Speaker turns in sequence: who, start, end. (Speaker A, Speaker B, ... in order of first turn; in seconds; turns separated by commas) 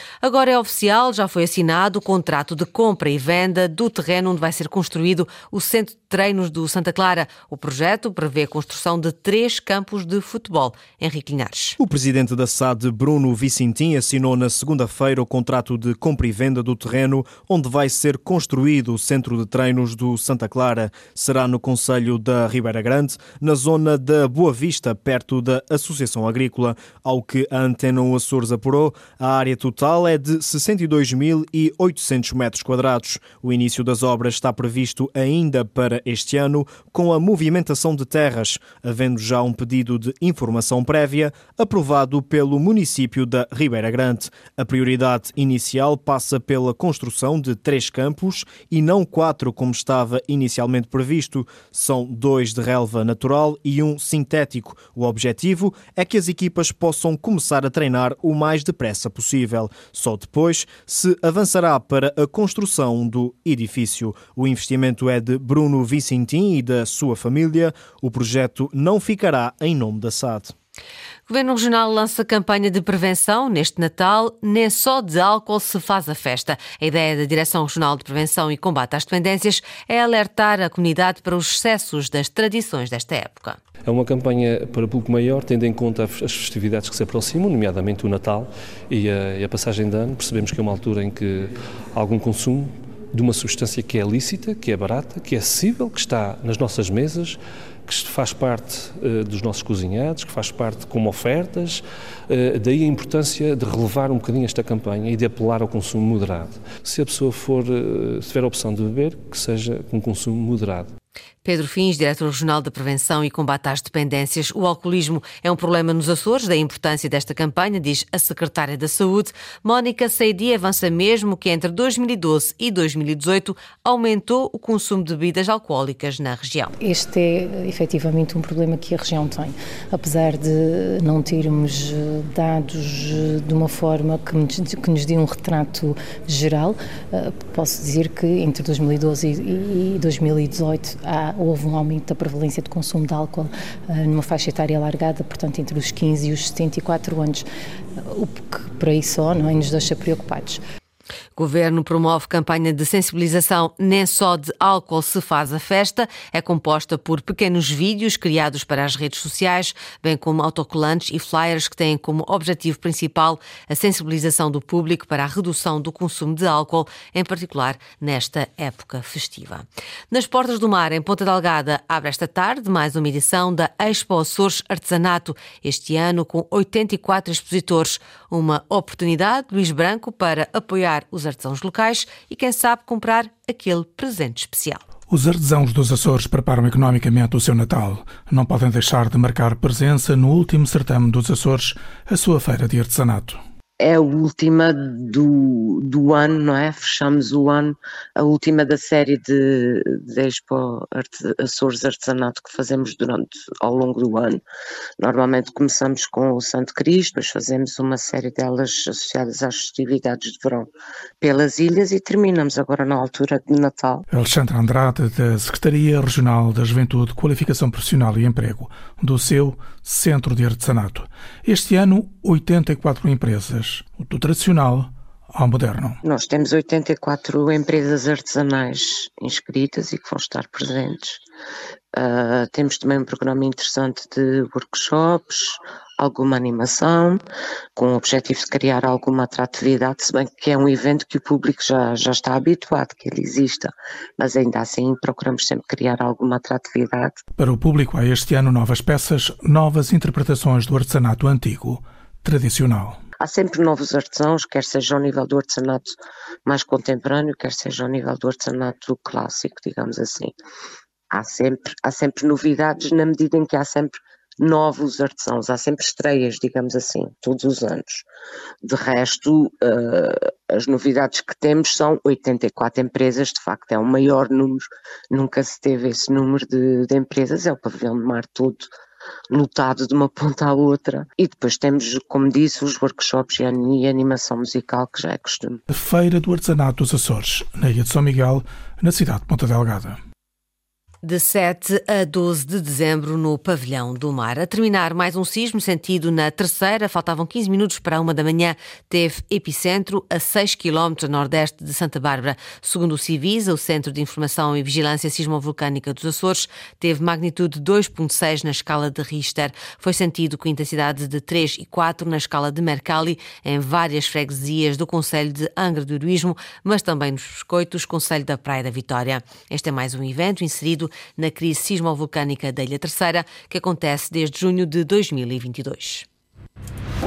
Speaker A: 0.2-11.8, Speaker B: 11.8-70.5, Speaker A: 71.3-83.6, Speaker C: 83.8-110.9, Speaker A: 111.4-126.7, Speaker D: 126.8-147.5, Speaker D: 148.1-150.6, Speaker A: 151.4-184.8, Speaker E: 185.1-193.4, Speaker F: 193.8-204.4, Speaker F: 205.0-210.7, Speaker F: 211.2-214.1, Speaker E: 214.1-226.0, Speaker F: 226.0-231.2, Speaker F: 231.9-237.2, Speaker F: 237.8-247.2, Speaker E: 247.4-253.0, Speaker F: 253.2-255.9, Speaker F: 256.5-260.3, Speaker F: 261.1-268.1, Speaker F: 268.6-278.7, Speaker F: 279.3-285.6, Speaker E: 285.7-290.0, Speaker A: 291.0-326.1